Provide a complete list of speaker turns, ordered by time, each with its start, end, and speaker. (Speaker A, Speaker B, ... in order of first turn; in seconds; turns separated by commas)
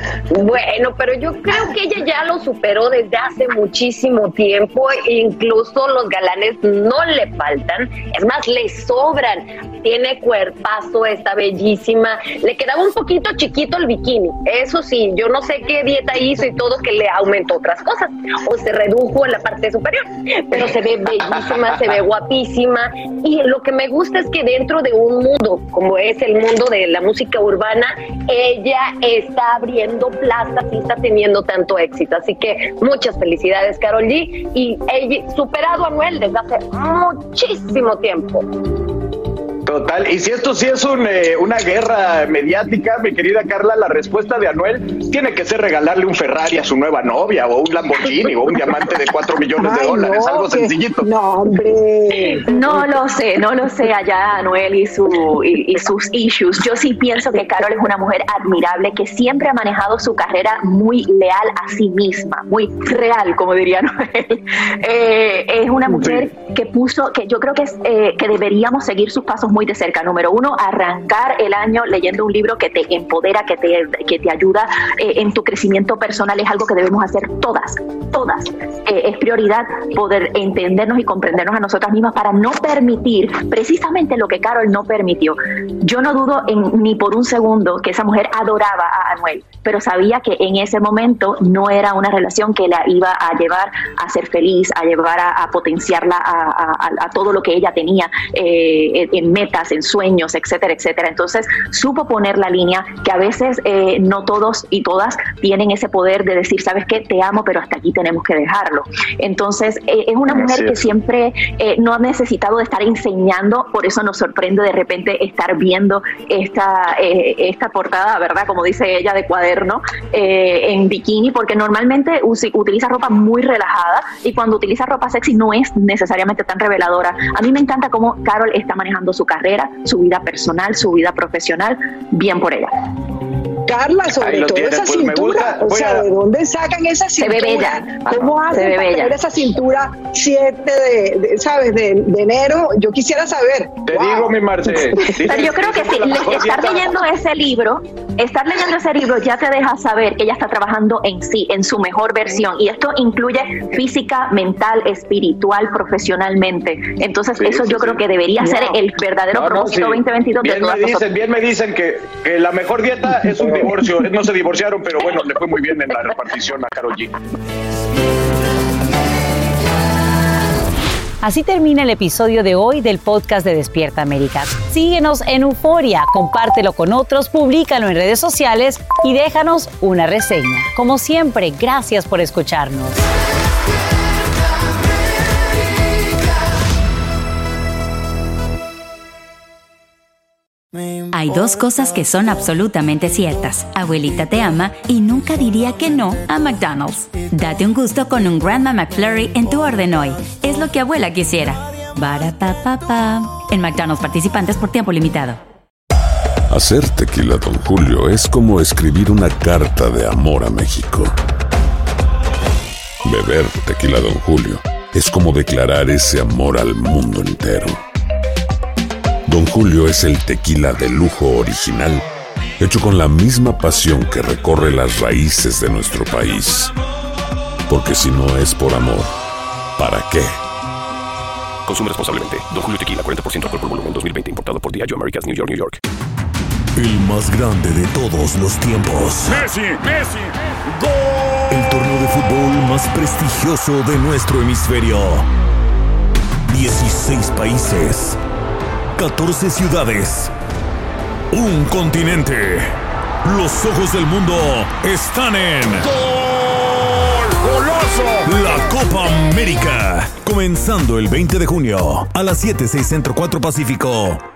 Speaker A: 0.3-38.4, Speaker B: 39.6-51.1, Speaker C: 49.6-52.1, Speaker A: 50.0-50.4, Speaker D: 52.5-132.7, Speaker C: 133.7-144.3, Speaker B: 134.2-136.1, Speaker D: 137.2-139.1, Speaker B: 143.8-147.0, Speaker D: 145.3-161.1, Speaker B: 157.3-158.7, Speaker B: 159.3-167.1, Speaker E: 171.2-182.9, Speaker F: 191.1-205.4, Speaker G: 206.5-211.1, Speaker G: 213.0-217.8, Speaker G: 219.3-222.0, Speaker G: 222.6-226.7, Speaker G: 227.7-229.1, Speaker G: 229.8-230.4, Speaker H: 231.7-235.8, Speaker I: 241.5-243.6, Speaker I: 244.6-245.0, Speaker I: 246.6-248.0, Speaker I: 253.4-254.3, Speaker I: 258.3-263.0